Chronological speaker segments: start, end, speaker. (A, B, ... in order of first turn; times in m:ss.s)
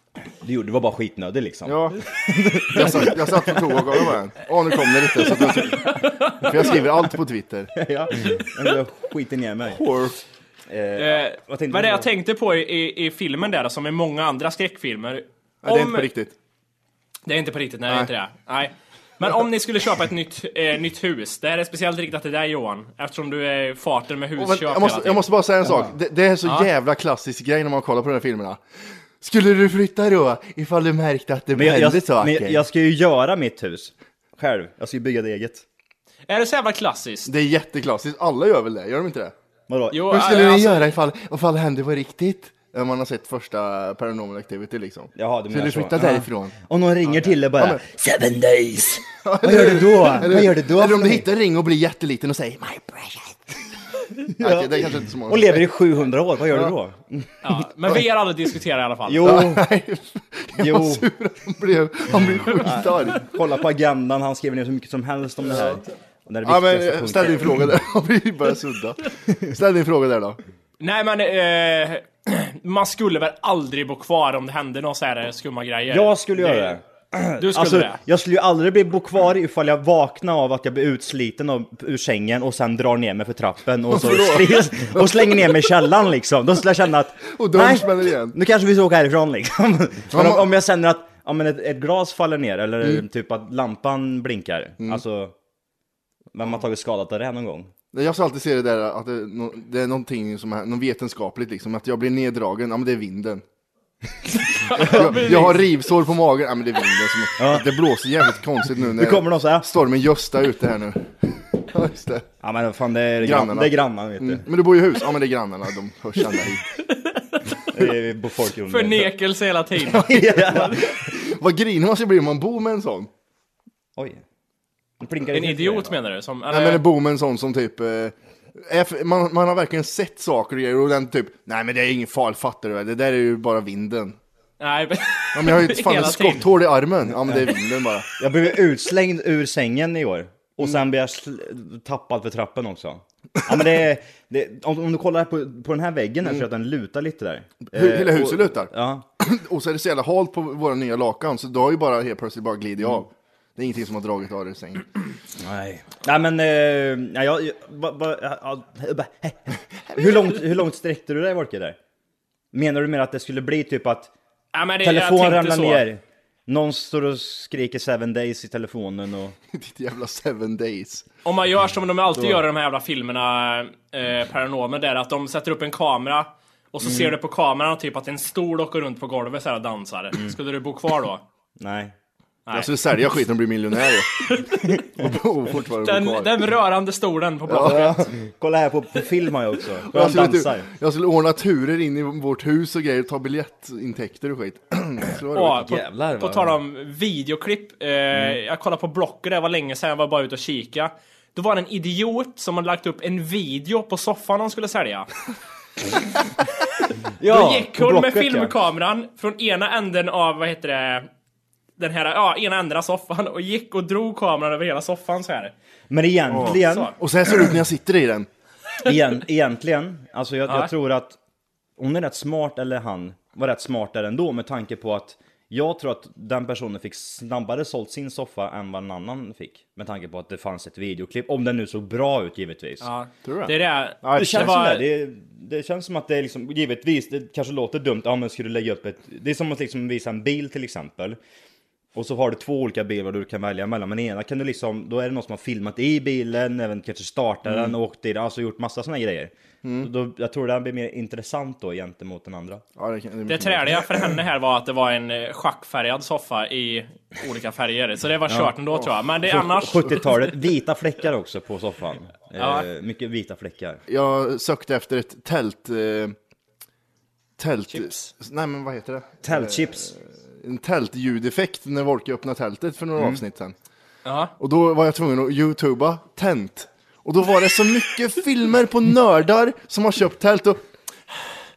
0:00.4-0:04.1 A
0:01.6-0:02.0 B
0:02.7-0:07.7 B
0:05.8-0:06.5 C
0:07.8-0:09.8 A
0:09.7-0:10.2 B
0:10.7-0:12.1 A
0:11.0-0:16.1 C
0:15.6-0:16.4 B
0:17.2-0:25.3 C
0:24.4-0:28.6 B
0:25.6-0:25.9 A
0:26.4-0:26.7 C
0:29.2-0:32.6 B
0:31.5-0:35.6 A
0:36.3-0:37.3 C
0:37.2-0:39.3 B
0:39.7-0:40.1 A
0:39.9-0:40.9 C
0:40.1-0:46.6 B
0:45.2-0:51.3 A
0:47.3-0:47.8 B
0:49.2-0:53.5 B
0:54.3-0:55.7 B
0:54.3-0:57.5 A
0:57.4-0:59.4 C
0:59.0-0:59.7 A
0:59.2-1:03.4 B
1:00.5-1:01.1 A
1:02.6-1:07.8 A
1:06.4-1:10.4 B
1:10.8-1:16.8 C
1:15.9-1:35.3 A
1:17.4-1:18.0 C
1:23.9-1:25.4 B
1:27.3-1:28.4 B
1:30.1-1:30.5 B
1:36.3-1:37.7 A
1:37.9-1:43.4 B
1:44.5-1:45.7 C
1:44.8-1:52.3 B
1:44.8-1:45.3 A
1:47.4-1:47.8 A
1:48.8-1:49.7 A
1:52.4-1:54.4 A
1:53.2-1:56.6 B
1:56.9-1:57.6 C
1:57.7-1:59.1 A
1:58.7-2:00.8 C
1:59.8-2:01.0 A
2:01.0-2:03.1 B
2:04.0-2:04.2 A
2:05.0-2:05.9 A
2:05.3-2:06.8 C
2:06.5-2:14.2 B
2:14.6-2:16.5 C
2:15.3-2:18.1 B
2:17.1-2:17.5 A
2:18.2-2:29.0 A
2:27.7-2:34.9 B
2:35.4-2:41.8 A
2:42.5-2:44.1 A
2:44.5-2:45.8 C
2:44.8-2:49.4 A
2:49.5-2:51.0 B
2:51.2-3:01.2 C
2:56.8-2:57.1 A
3:01.6-3:01.9 A
3:02.4-3:02.7 C
3:02.5-3:04.2 B
3:04.2-3:04.8 C
3:04.9-3:06.5 B
3:05.8-3:08.1 C
3:07.5-3:07.8 B
3:07.5-3:10.7 A
3:09.9-3:15.6 B
3:15.3-3:25.1 C
3:15.4-3:16.6 A
3:18.1-3:18.4 A
3:27.2-3:28.6 A
3:27.2-3:31.1 C
3:31.8-3:35.5 C
3:35.9-3:36.9 A
3:36.3-3:38.3 B
3:36.4-3:36.9 C
3:38.8-3:41.2 A
3:41.8-3:52.9 A
3:52.8-3:54.8 C
3:53.2-3:54.6 B
3:54.1-4:01.2 A
4:01.9-4:12.6 A
4:07.5-4:07.7 B
4:09.6-4:09.9 B
4:12.8-4:14.1 B
4:13.3-4:20.0 C
4:19.3-4:23.8 A
4:22.4-4:22.7 C
4:23.9-4:26.2 B
4:27.4-4:33.5 B
4:27.7-4:28.1 C
4:29.2-4:29.9 A
4:34.0-4:34.3 C
4:34.4-4:41.3 B